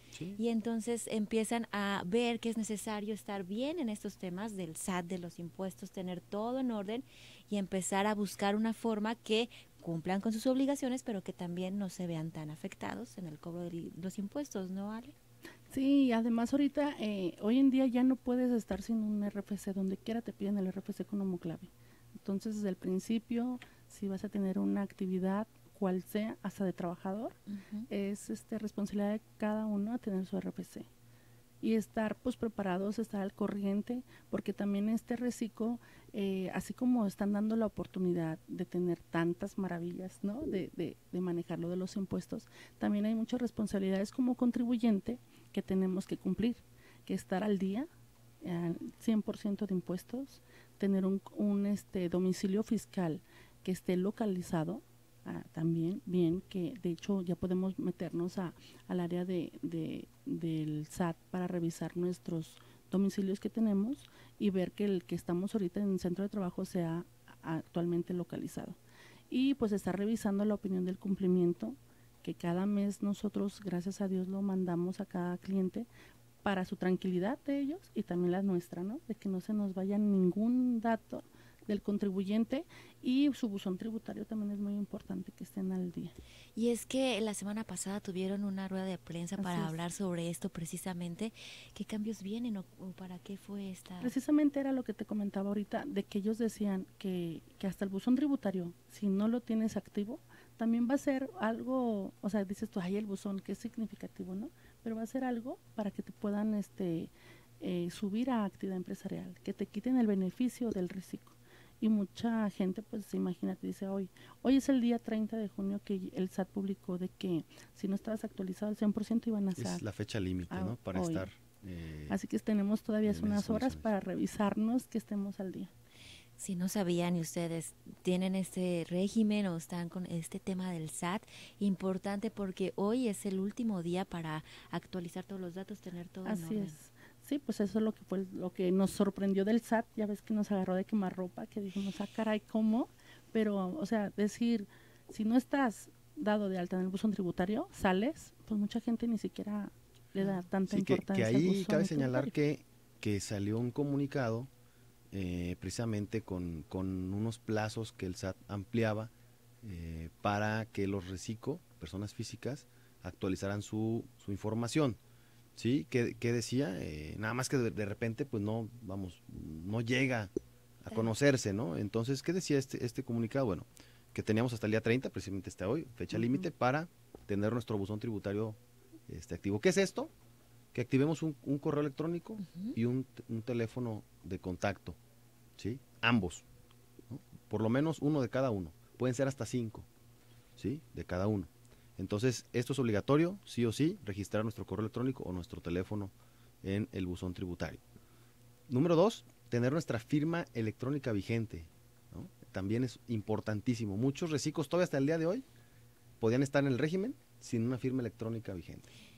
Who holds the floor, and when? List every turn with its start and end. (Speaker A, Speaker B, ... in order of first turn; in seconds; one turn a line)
Speaker A: 0.1-0.4
Speaker B: 0.4-15.2
Speaker C: 15.7-27.4
Speaker B: 27.5-27.9
Speaker C: 27.9-30.9
Speaker C: 31.6-47.9
Speaker C: 48.4-68.8
Speaker C: 69.3-75.9
Speaker C: 76.4-86.1
Speaker B: 86.6-94.2
Speaker C: 89.4-89.8
Speaker C: 94.0-119.8
Speaker A: 119.6-122.2
Speaker C: 120.5-121.3
Speaker C: 122.1-125.7
Speaker A: 123.0-123.9
Speaker B: 126.4-136.8
Speaker C: 136.2-152.3
Speaker A: 150.7-154.5
Speaker A: 155.1-159.1
Speaker A: 159.6-165.0
Speaker A: 165.6-180.1
Speaker A: 180.7-185.0
Speaker A: 185.6-186.5
Speaker A: 187.1-189.9
Speaker A: 190.6-197.8
Speaker A: 198.7-205.5
Speaker A: 206.2-208.9